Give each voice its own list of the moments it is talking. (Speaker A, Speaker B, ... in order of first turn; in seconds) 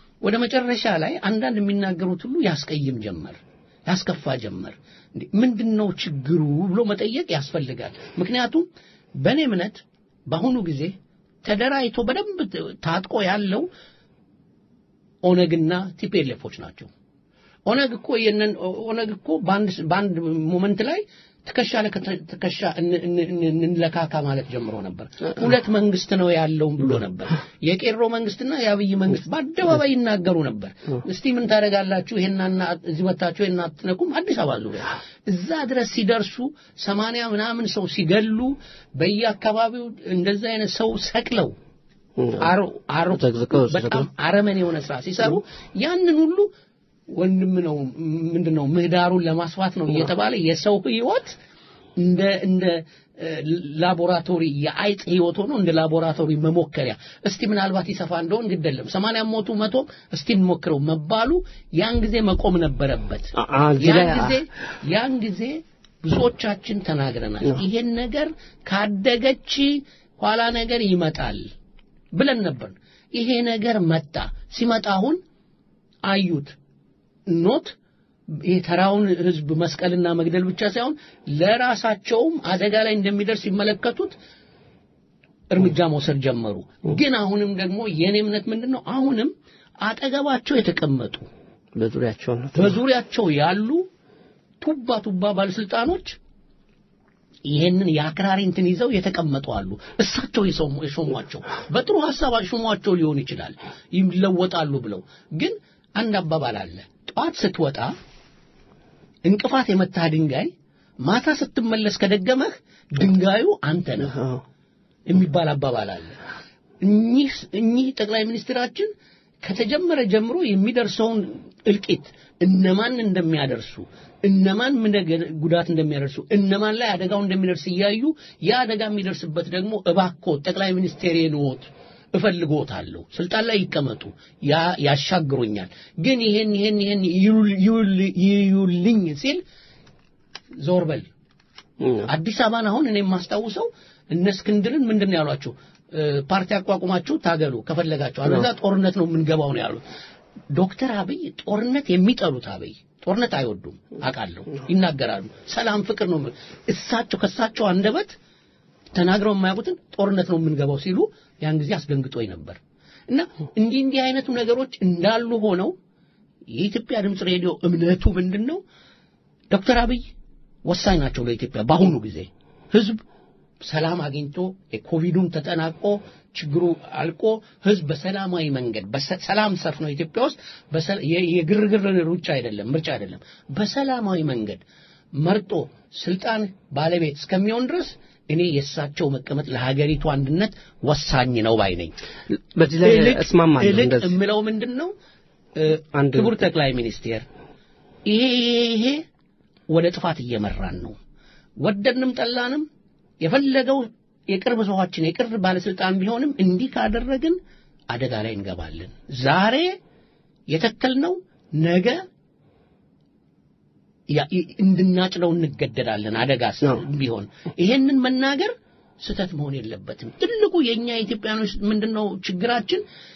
Speaker A: 0.2-8.7, 9.2-10.9, 11.4-13.7, 15.2-16.9, 17.7-41.5, 42.4-46.5, 47.1-51.3, 52.0-71.5, 72.2-75.2, 76.1-76.5, 77.3-77.7, 78.4-84.1, 85.5-91.3, 92.6-93.9, 94.6-96.2, 97.5-107.9, 109.3-110.5, 111.1-114.2, 115.1-116.2, 116.8-118.9, 119.4-139.4, 140.6-141.1, 142.1-149.8, 150.5-158.1, 158.9-162.6, 163.1-165.8, 166.5-168.6, 169.5-170.1, 170.7-173.0, 173.6-184.6, 185.2-191.9, 192.8-194.9, 195.6-197.3, 198.1-199.1, 199.7-201.0, 201.6-202.7, 203.2-207.4, 207.9-209.8, 210.5-212.0, 214.1-222.8
Speaker B: 43.2-44.1, 63.4-64.3, 91.8-92.8, 114.1-114.4, 141.8-142.1, 192.6-194.1, 195.9-196.3